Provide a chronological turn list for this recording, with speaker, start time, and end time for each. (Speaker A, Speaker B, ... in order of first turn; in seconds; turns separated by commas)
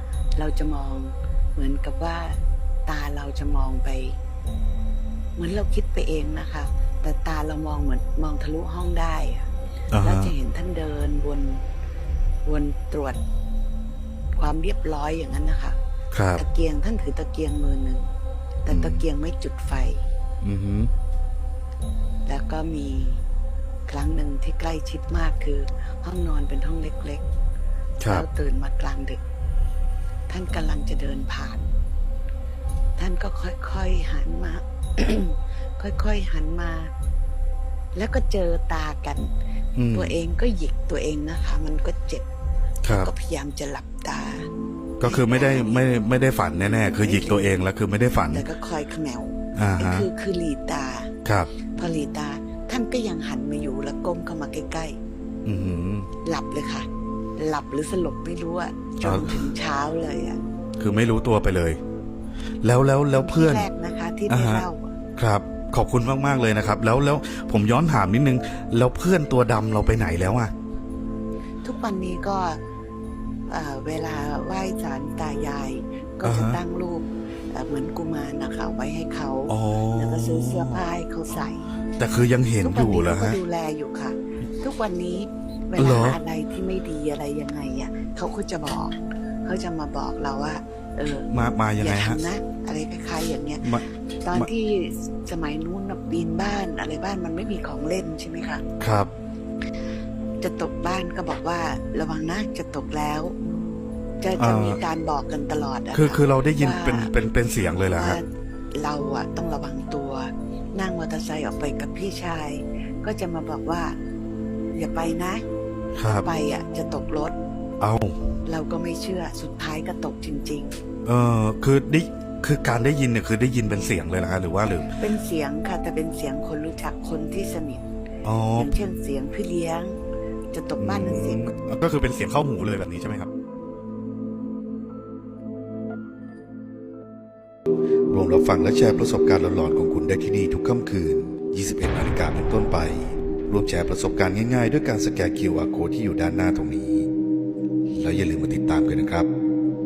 Speaker A: 0.3-4.2, Speaker A: 5.4-9.5, Speaker B: 9.9-10.3, Speaker A: 10.0-11.6, Speaker A: 12.4-13.2, Speaker A: 14.3-15.8, Speaker B: 16.1-16.4, Speaker A: 16.4-18.1, Speaker A: 18.6-20.1, Speaker B: 18.7-19.0, Speaker B: 20.4-20.9, Speaker A: 22.2-23.2, Speaker A: 23.9-27.2, Speaker B: 28.0-28.2, Speaker A: 28.1-29.2, Speaker A: 30.3-31.7, Speaker A: 33.0-36.9, Speaker A: 37.9-39.3, Speaker B: 39.8-40.2, Speaker A: 39.9-42.2, Speaker B: 42.8-43.1, Speaker A: 43.0-44.5, Speaker B: 45.0-48.4, Speaker A: 45.0-45.8, Speaker A: 46.8-47.5, Speaker A: 48.3-55.0, Speaker B: 49.5-50.1, Speaker B: 51.2-51.5, Speaker B: 55.4-56.1, Speaker A: 56.2-60.4, Speaker B: 59.0-59.5, Speaker B: 60.8-61.8, Speaker B: 62.6-63.7, Speaker A: 63.1-64.9, Speaker B: 64.3-64.7, Speaker B: 65.2-70.5, Speaker A: 71.6-72.6, Speaker A: 73.5-81.7, Speaker B: 76.2-76.6, Speaker B: 79.5-80.8, Speaker B: 82.0-83.4, Speaker A: 82.6-93.7, Speaker B: 85.8-86.2, Speaker B: 91.3-92.2, Speaker B: 93.6-94.5, Speaker A: 94.2-98.6, Speaker B: 98.8-99.1, Speaker A: 100.4-103.3, Speaker A: 104.2-107.1, Speaker B: 104.4-104.8, Speaker B: 105.9-108.2, Speaker A: 107.9-114.0, Speaker A: 114.7-115.4, Speaker B: 115.9-116.3, Speaker A: 116.0-117.4, Speaker B: 117.8-118.2, Speaker A: 118.5-120.8, Speaker B: 121.0-124.9, Speaker A: 124.9-127.8, Speaker B: 128.2-128.7, Speaker A: 128.6-130.0, Speaker A: 130.5-131.5, Speaker B: 130.8-133.3, Speaker B: 138.1-147.1, Speaker B: 147.9-149.3